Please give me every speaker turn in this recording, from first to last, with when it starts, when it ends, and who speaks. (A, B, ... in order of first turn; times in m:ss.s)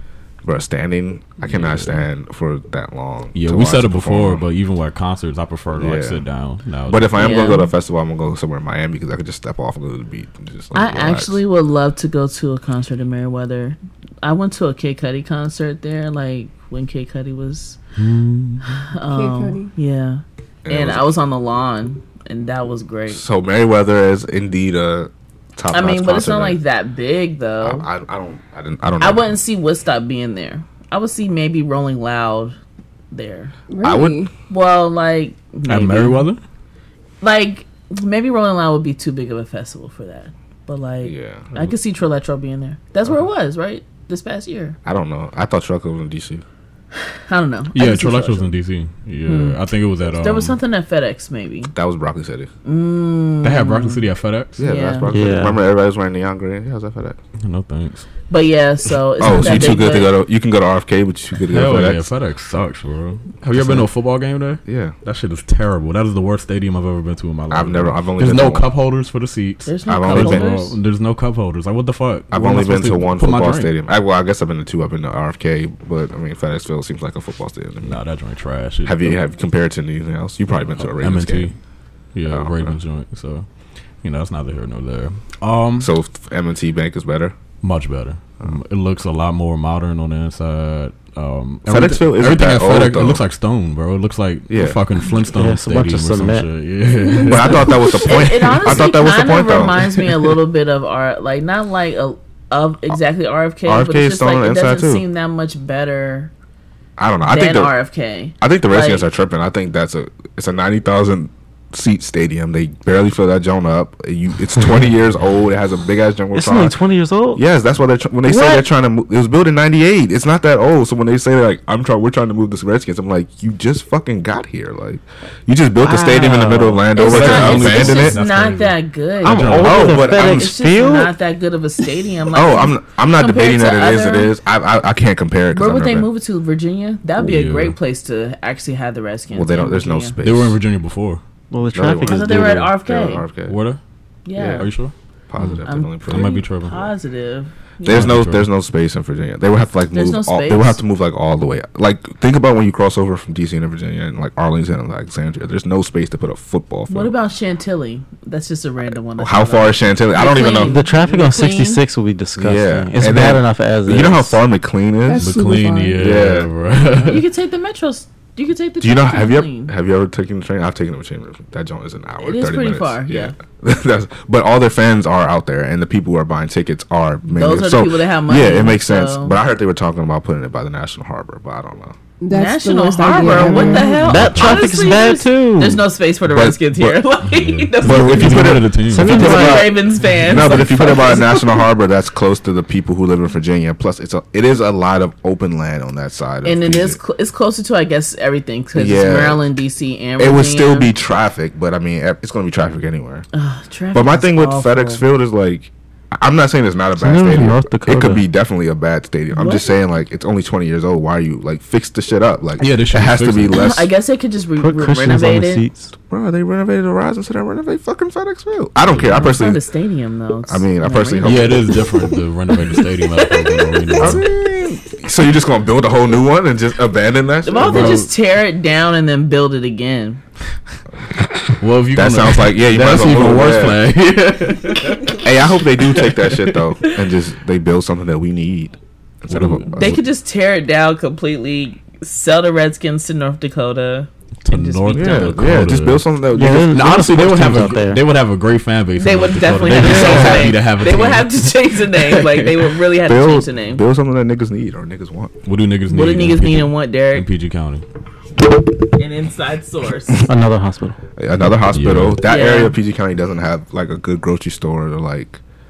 0:00.4-0:04.4 A
0:01.4-0:02.0 B
0:03.3-0:07.2 B
0:05.8-0:06.2 A
0:06.9-0:11.4 A
0:07.2-0:07.7 C
0:10.7-0:17.8 C
0:18.0-0:18.8 B
0:18.7-0:23.2 C
0:19.1-0:19.7 D
0:20.6-0:21.1 A
0:23.1-0:26.6 A
0:25.7-0:27.9 C
0:27.6-0:29.3 A
0:29.0-0:32.6 C
0:33.1-0:33.5 C
0:33.7-0:34.3 D
0:33.8-0:34.2 A
0:34.5-0:36.2 C
0:35.7-0:36.4 B
0:37.2-0:44.8 C
0:41.0-0:41.5 A
0:44.8-0:46.4 A
0:47.3-0:48.5 C
0:47.7-0:50.6 B
0:49.2-0:51.7 C
0:51.7-0:52.5 A
0:52.6-0:54.0 C
0:53.4-0:54.7 B
0:54.6-0:57.2 A
0:54.6-0:55.0 C
0:55.1-0:55.6 E
0:57.4-0:58.0 B
0:58.3-1:00.2 C
0:59.2-1:02.1 A
1:01.5-1:13.7 B
1:03.5-1:03.9 A
1:04.6-1:04.9 A
1:07.5-1:08.7 A
1:09.6-1:10.8 C
1:09.8-1:10.5 A
1:12.3-1:18.0 A
1:17.8-1:19.2 B
1:18.8-1:21.5 A
1:20.8-1:21.5 B
1:22.1-1:23.5 B
1:22.3-1:22.8 A
1:24.0-1:25.9 B
1:25.8-1:27.3 A
1:27.6-1:38.0 B
1:31.6-1:33.2 A
1:34.5-1:34.8 A
1:35.3-1:36.5 E
1:37.2-1:46.3 C
1:37.2-1:39.8 A
1:43.6-1:45.0 A
1:47.0-1:47.7 A
1:47.3-1:49.0 C
1:48.4-1:56.8 A
1:56.3-1:57.4 E
1:57.3-2:08.2 A
1:58.2-1:58.7 E
2:05.8-2:06.9 E
2:06.9-2:14.3 C
2:07.0-2:10.0 B
2:09.2-2:11.1 E
2:09.6-2:10.6 A
2:12.3-2:16.1 A
2:15.5-2:20.1 C
2:17.2-2:17.8 B
2:19.3-2:20.6 A
2:20.2-2:21.2 B
2:21.5-2:22.7 E
2:21.7-2:23.6 A
2:22.0-2:23.2 C
2:23.5-2:23.8 B
2:24.2-2:24.7 C
2:24.4-2:24.7 A
2:24.6-2:24.9 B
2:25.3-2:26.3 A
2:25.6-2:28.2 C
2:26.1-2:26.9 B
2:27.8-2:37.1 A
2:27.9-2:28.5 B
2:29.9-2:30.8 C
2:36.9-2:41.8 C
2:39.2-2:40.7 A
2:40.4-2:44.4 E
2:42.4-2:45.3 A
2:45.0-2:46.2 D
2:45.2-2:47.2 B
2:46.0-2:46.5 A
2:47.0-2:49.7 C
2:48.8-3:02.0 A
2:52.2-2:53.3 C
2:57.3-2:59.4 C
3:02.2-3:04.2 D
3:02.3-3:11.7 C
3:03.2-3:05.8 E
3:04.1-3:04.7 B
3:06.2-3:07.0 A
3:07.2-3:09.5 B
3:07.8-3:17.0 A
3:08.8-3:09.9 E
3:10.2-3:10.6 B
3:16.4-3:20.9 C
3:18.7-3:19.4 A
3:20.2-3:23.2 A
3:23.3-3:25.0 C
3:23.9-3:33.9 A
3:27.0-3:28.2 E
3:32.6-3:33.6 B
3:33.5-3:35.6 C
3:34.6-3:35.9 E
3:36.0-3:39.6 A
3:38.8-3:39.4 B
3:39.0-3:41.6 C
3:40.4-3:41.7 A
3:41.2-3:44.3 B
3:43.2-3:44.3 C
3:44.0-3:48.0 A
3:47.4-3:50.2 C
3:47.6-3:48.1 B
3:51.6-3:55.2 B
3:51.9-3:53.8 A
3:55.2-4:00.0 A
3:55.9-3:56.5 B
3:59.3-3:59.7 B
3:59.7-4:05.6 C
4:04.4-4:12.7 B
4:04.9-4:06.8 A
4:06.3-4:08.0 E
4:09.0-4:13.8 C
4:09.8-4:10.5 E
4:13.0-4:15.3 A
4:15.4-4:17.8 B
4:15.9-4:17.3 C
4:19.0-4:20.3 C
4:20.2-4:21.0 E
4:21.2-4:25.4 A
4:21.7-4:22.2 B
4:22.2-4:22.8 C